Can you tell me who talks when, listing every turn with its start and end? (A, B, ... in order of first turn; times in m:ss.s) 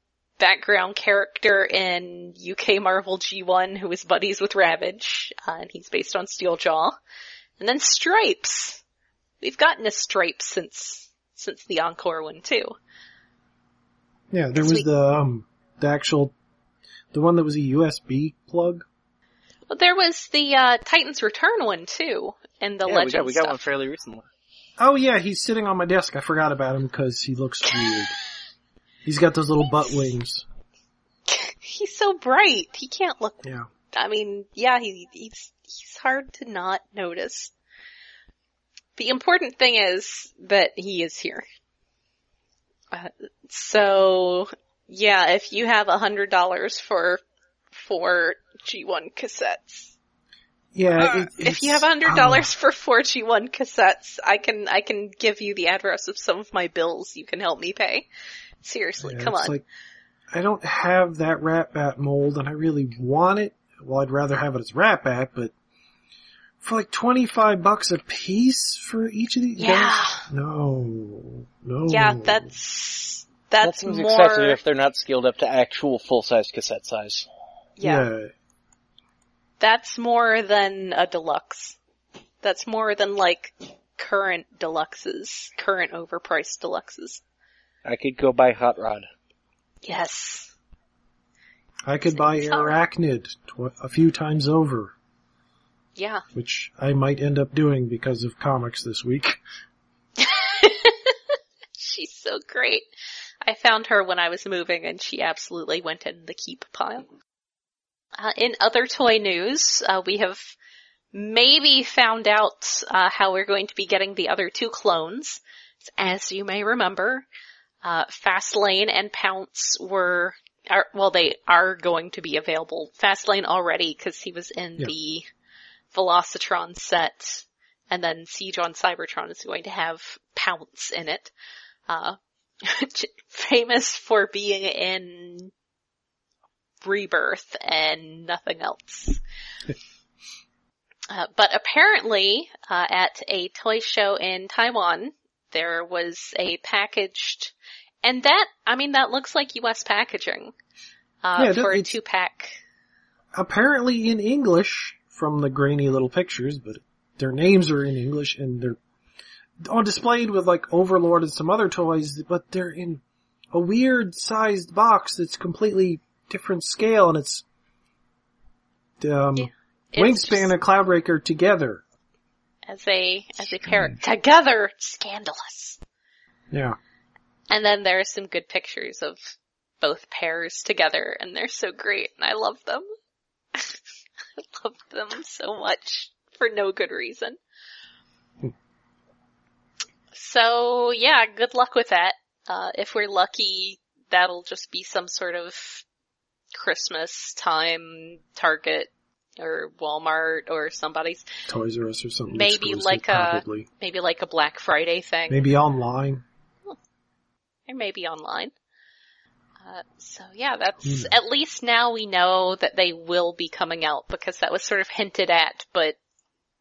0:00.4-0:07.0 A
0:07.6-0:08.8 A
0:09.4-0:12.8 A
0:14.3-0:16.3 B
0:14.6-0:14.9 A
0:17.1-0:18.8 B
0:19.7-0:23.6 A
0:22.9-0:24.3 C
0:24.8-0:28.1 B
0:27.7-0:28.1 A
0:29.0-0:30.4 B
0:31.3-0:37.5 A
0:33.4-0:33.7 B
0:39.0-0:41.4 A
0:42.9-0:47.2 A
0:47.7-0:49.9 A
0:50.7-0:52.5 B
0:51.0-0:58.1 A
0:58.6-0:59.6 A
0:59.0-0:59.6 B
1:00.3-1:05.5 B
1:06.6-1:12.5 B
1:09.6-1:10.3 A
1:11.9-1:14.6 A
1:13.6-1:17.3 C
1:17.8-1:18.1 A
1:17.8-1:18.3 B
1:19.6-1:21.8 A
1:22.4-1:27.2 A
1:27.8-1:29.1 C
1:29.8-1:30.5 A
1:31.8-1:34.9 B
1:32.1-1:32.8 A
1:36.0-1:36.2 A
1:36.4-1:39.4 B
1:40.2-1:41.2 A
1:41.8-1:42.9 A
1:43.4-1:47.1 A
1:48.2-1:50.6 A
1:51.1-1:57.3 A
1:57.8-2:05.3 A
2:05.9-2:11.3 A
2:11.9-2:15.5 A
2:16.8-2:19.2 A
2:21.1-2:30.5 A
2:31.2-2:32.6 A
2:31.4-2:31.9 B
2:33.3-2:38.8 B
2:39.6-2:47.4 B
2:49.0-2:51.8 B
2:49.4-2:50.5 A
2:52.7-2:55.8 A
2:53.7-2:54.0 B
2:56.5-2:56.8 B
2:57.5-3:02.8 A
3:04.4-3:07.4 A
3:10.1-3:15.8 A
3:16.5-3:21.2 A
3:21.5-3:23.7 B
3:22.3-3:25.5 A
3:25.3-3:26.2 B
3:27.7-3:28.5 A
3:29.6-3:36.0 A
3:30.8-3:31.2 B